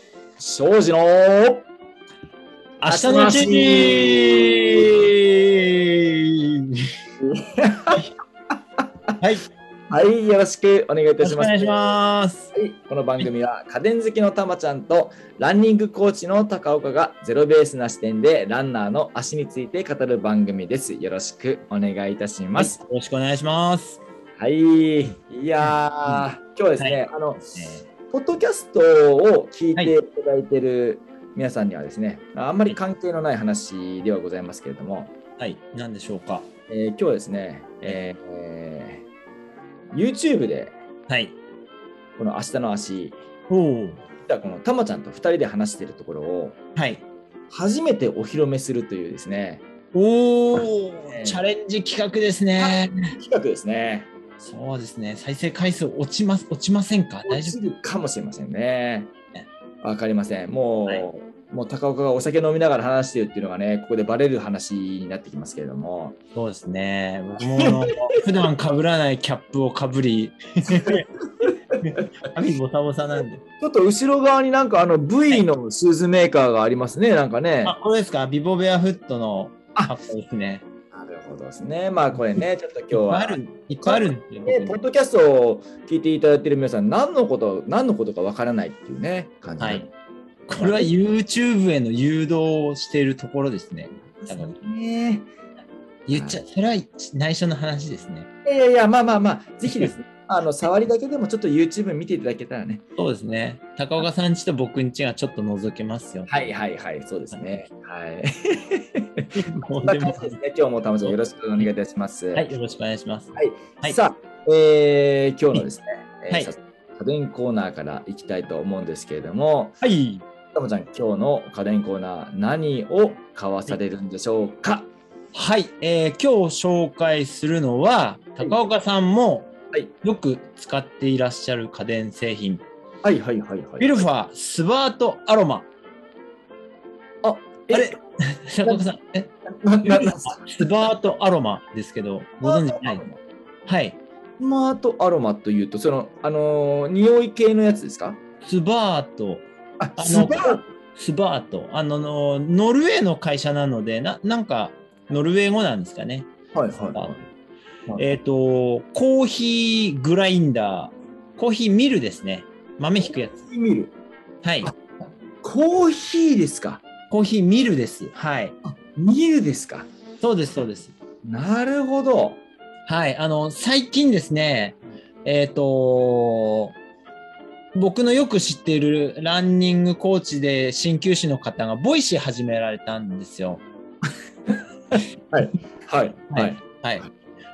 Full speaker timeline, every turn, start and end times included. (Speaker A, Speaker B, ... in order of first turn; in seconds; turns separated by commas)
Speaker A: 0.4-1.7, Speaker B: 2.8-6.8, Speaker A: 2.9-4.9, Speaker A: 7.2-8.0, Speaker B: 9.2-9.5, Speaker A: 9.9-11.9, Speaker B: 11.2-12.5, Speaker A: 12.5-22.8, Speaker B: 22.6-24.0, Speaker A: 24.4-27.4, Speaker B: 26.8-27.9, Speaker A: 28.1-35.1, Speaker B: 35.4-36.5, Speaker A: 36.7-39.0, Speaker A: 39.9-40.7, Speaker B: 41.1-41.3, Speaker A: 42.2-43.2, Speaker B: 43.5-44.0, Speaker A: 44.3-46.6, Speaker B: 46.8-47.0, Speaker A: 47.5-49.6, Speaker B: 49.9-53.1, Speaker A: 50.5-51.4, Speaker A: 52.6-54.1, Speaker B: 54.4-57.6, Speaker A: 57.3-59.1, Speaker A: 59.8-66.2, Speaker B: 66.3-71.1, Speaker A: 67.4-68.3, Speaker A: 70.7-72.0, Speaker B: 71.8-73.4, Speaker A: 73.6-77.8, Speaker B: 77.7-80.7, Speaker A: 80.9-89.9, Speaker B: 82.9-84.8, Speaker B: 89.6-89.8, Speaker B: 90.5-94.6, Speaker A: 90.6-90.9, Speaker A: 94.1-95.3, Speaker B: 96.1-98.3, Speaker A: 96.1-96.4, Speaker A: 98.4-102.8, Speaker B: 103.0-106.5, Speaker A: 106.3-109.3, Speaker B: 109.3-110.4, Speaker A: 109.8-112.5, Speaker B: 111.0-111.7, Speaker B: 112.3-114.0, Speaker A: 113.3-119.8, Speaker B: 119.8-120.2, Speaker A: 120.5-124.9, Speaker B: 125.3-129.5, Speaker B: 130.0-132.6, Speaker A: 133.0-134.1, Speaker B: 133.8-135.7, Speaker A: 137.2-138.0, Speaker B: 137.7-143.0, Speaker A: 139.6-140.9, Speaker A: 142.4-143.2, Speaker B: 143.7-144.0, Speaker A: 144.4-148.2, Speaker B: 148.4-156.3, Speaker A: 149.8-150.6, Speaker A: 156.5-157.2, Speaker B: 158.0-163.4, Speaker A: 163.0-163.9, Speaker B: 164.4-164.7, Speaker A: 165.4-166.8, Speaker B: 167.1-168.6, Speaker A: 168.6-169.9, Speaker B: 170.2-170.9, Speaker A: 171.2-172.4, Speaker B: 172.9-176.7, Speaker B: 177.8-183.6, Speaker A: 184.9-187.1, Speaker B: 186.3-187.1